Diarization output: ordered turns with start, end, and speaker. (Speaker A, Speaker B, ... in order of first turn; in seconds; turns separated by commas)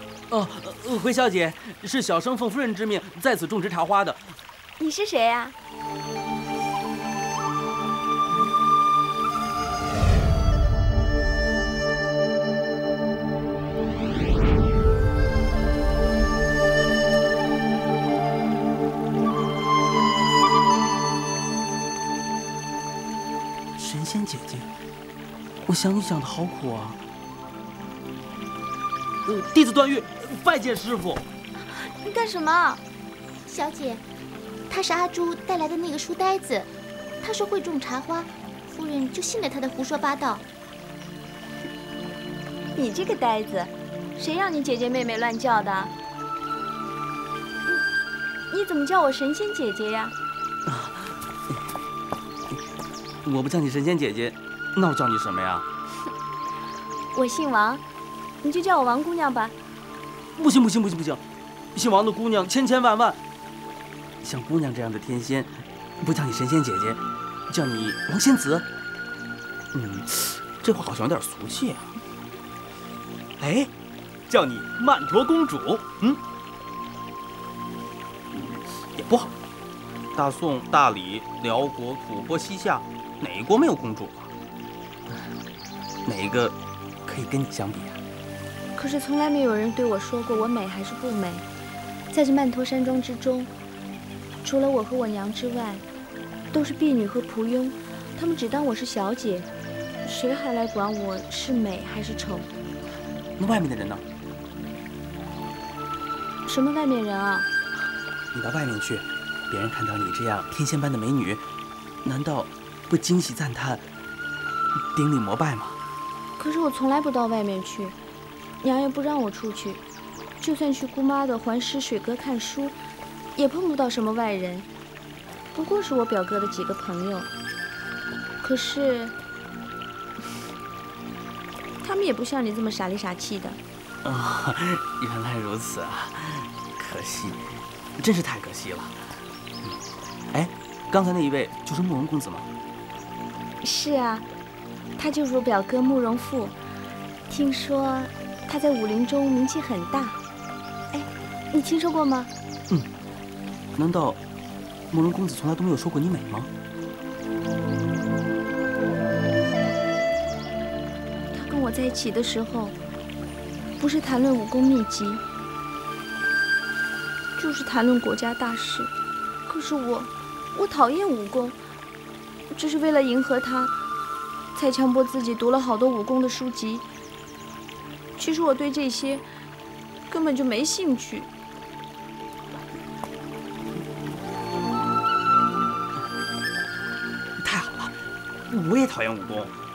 Speaker A: 0.3-4.4, Speaker B: 4.8-5.6, Speaker A: 23.8-24.7, Speaker A: 25.7-27.0, Speaker A: 29.2-31.2, Speaker B: 32.0-32.8, Speaker C: 33.5-34.0, Speaker C: 34.7-36.7, Speaker C: 37.2-40.4, Speaker B: 42.8-45.9, Speaker B: 48.5-50.1, Speaker A: 50.7-51.1, Speaker A: 53.2-55.7, Speaker B: 57.1-57.8, Speaker B: 58.4-59.5, Speaker A: 60.4-61.2, Speaker A: 61.8-63.2, Speaker A: 64.2-68.7, Speaker A: 69.7-71.9, Speaker A: 73.4-73.7, Speaker A: 74.3-76.2, Speaker A: 78.3-79.3, Speaker A: 80.2-84.3, Speaker A: 86.1-88.0, Speaker B: 88.8-91.5, Speaker B: 92.1-93.5, Speaker B: 94.4-95.8, Speaker B: 96.5-99.5, Speaker B: 100.0-102.5, Speaker A: 103.4-104.0, Speaker B: 106.5-107.5, Speaker A: 108.3-111.5, Speaker A: 112.0-113.8, Speaker A: 114.9-115.8, Speaker B: 116.4-118.0, Speaker B: 118.6-119.8, Speaker B: 120.4-122.8, Speaker B: 123.4-124.7, Speaker B: 125.5-127.3, Speaker B: 128.4-129.2, Speaker B: 131.8-133.6, Speaker A: 134.1-137.4, Speaker A: 138.0-139.0, Speaker A: 140.3-142.5, Speaker B: 143.6-144.3, Speaker B: 145.0-146.6, Speaker B: 147.3-150.2, Speaker B: 150.9-152.3, Speaker A: 153.8-154.2, Speaker A: 154.9-156.5, Speaker B: 161.3-162.8, Speaker B: 163.8-165.2, Speaker B: 167.4-168.9, Speaker B: 169.5-171.6, Speaker B: 172.5-173.8, Speaker B: 174.6-176.9, Speaker B: 178.2-179.2, Speaker B: 180.1-181.3, Speaker A: 187.4-188.0, Speaker A: 188.5-189.5